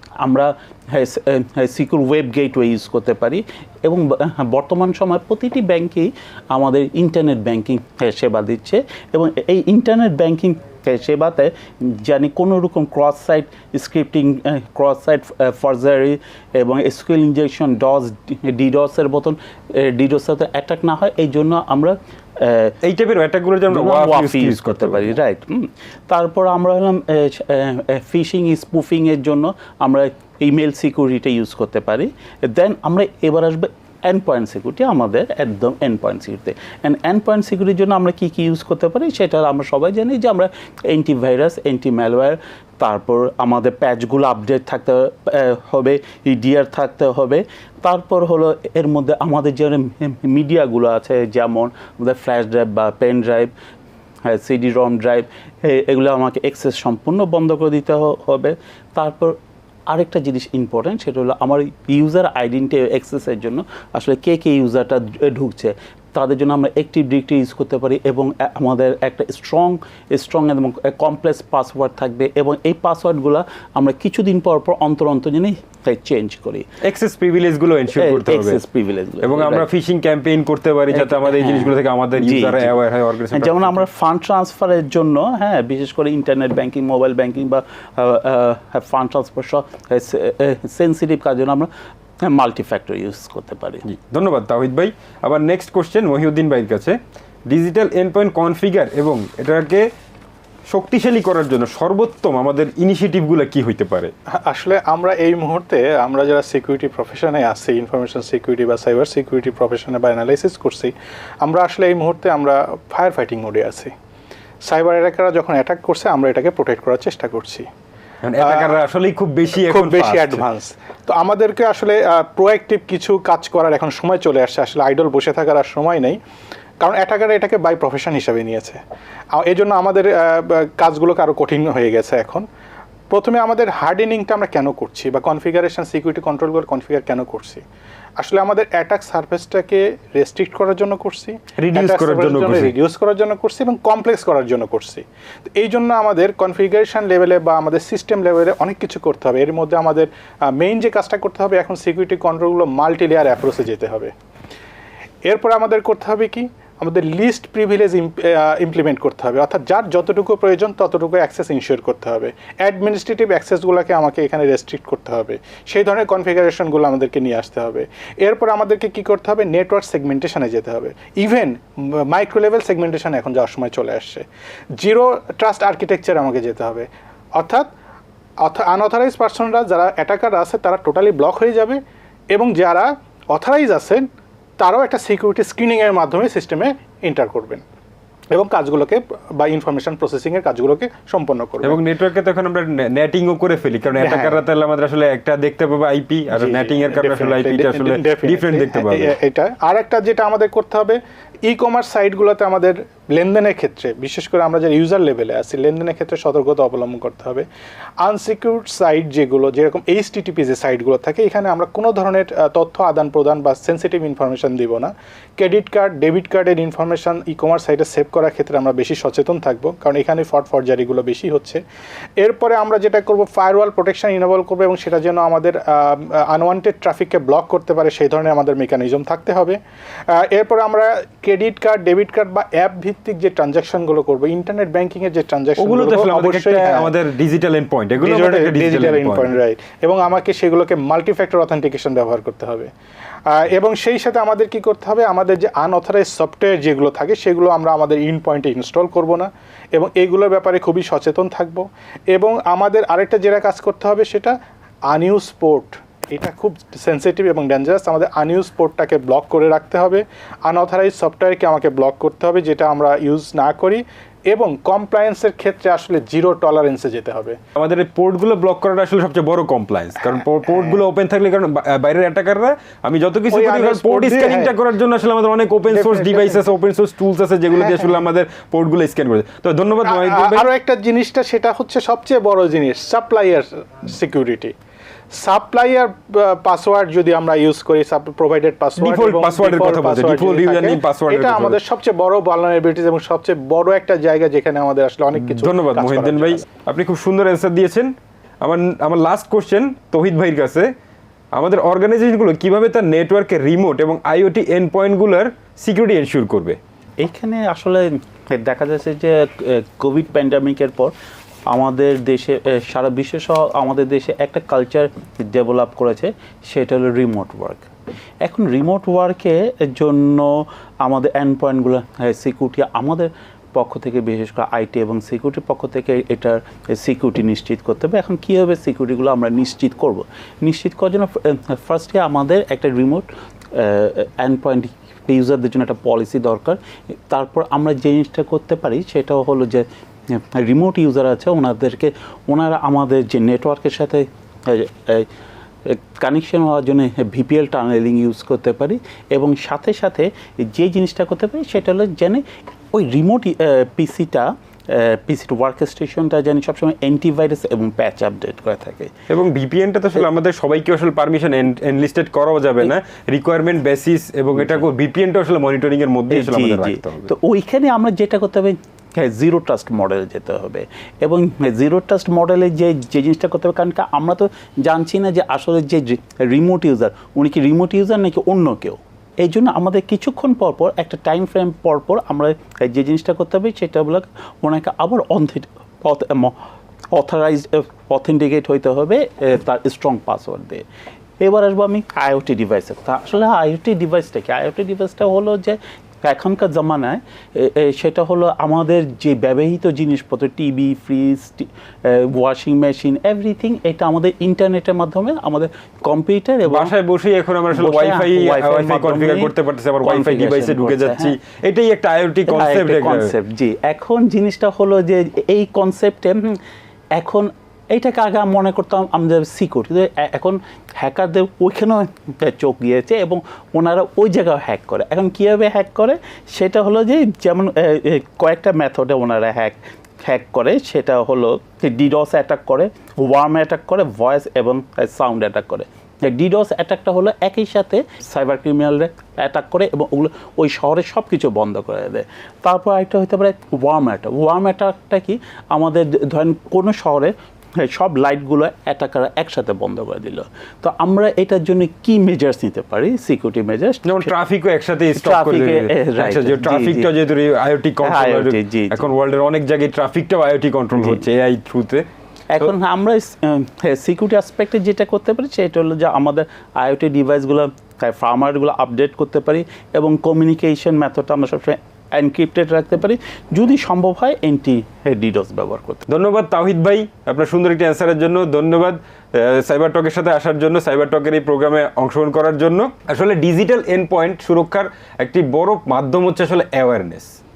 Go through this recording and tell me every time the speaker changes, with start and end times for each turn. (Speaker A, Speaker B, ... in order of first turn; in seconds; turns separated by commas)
Speaker A: 0.2-22.7, Speaker B: 22.8-25.1, Speaker A: 23.7-53.5, Speaker A: 54.2-59.4, Speaker A: 59.9-76.7, Speaker B: 76.8-78.6, Speaker A: 77.9-79.7, Speaker B: 79.2-83.8, Speaker A: 80.9-82.8, Speaker A: 83.3-91.7, Speaker A: 92.2-93.8, Speaker B: 93.9-97.0, Speaker B: 97.5-99.8, Speaker B: 100.7-104.1, Speaker C: 104.5-110.9, Speaker C: 111.4-113.9, Speaker C: 114.7-117.7, Speaker B: 118.2-120.4, Speaker C: 118.4-118.8, Speaker C: 119.6-126.2, Speaker C: 126.8-128.8, Speaker C: 129.4-132.4, Speaker C: 133.1-137.6, Speaker C: 138.2-145.0, Speaker B: 141.6-142.8, Speaker C: 145.6-154.1, Speaker C: 155.3-174.2, Speaker C: 174.8-177.7, Speaker C: 178.4-181.8, Speaker C: 182.3-184.0, Speaker C: 184.6-187.6, Speaker C: 188.3-191.8, Speaker B: 191.6-199.2, Speaker C: 194.0-194.4, Speaker C: 196.3-207.4, Speaker C: 208.0-221.6, Speaker C: 222.2-229.6, Speaker C: 230.1-236.9, Speaker B: 235.6-239.3, Speaker C: 238.0-242.7, Speaker C: 243.3-254.3, Speaker C: 254.9-267.4, Speaker B: 267.6-280.5, Speaker C: 270.5-270.8, Speaker C: 273.3-274.5, Speaker C: 275.7-276.4, Speaker C: 277.5-278.0, Speaker C: 279.8-284.5, Speaker C: 285.2-296.4, Speaker B: 288.8-291.6, Speaker B: 295.1-300.7, Speaker B: 301.4-306.6, Speaker A: 307.0-310.9, Speaker A: 311.5-317.6, Speaker A: 318.2-345.1, Speaker A: 345.6-358.9, Speaker B: 359.1-367.1, Speaker A: 366.1-386.4, Speaker A: 386.9-390.6, Speaker A: 391.2-406.7, Speaker B: 406.4-413.1, Speaker A: 407.5-411.1, Speaker A: 412.3-416.4, Speaker A: 416.9-454.1, Speaker B: 453.8-461.8, Speaker A: 454.9-456.9, Speaker A: 457.8-458.9, Speaker A: 460.7-461.0, Speaker A: 462.3-475.8, Speaker B: 475.9-487.1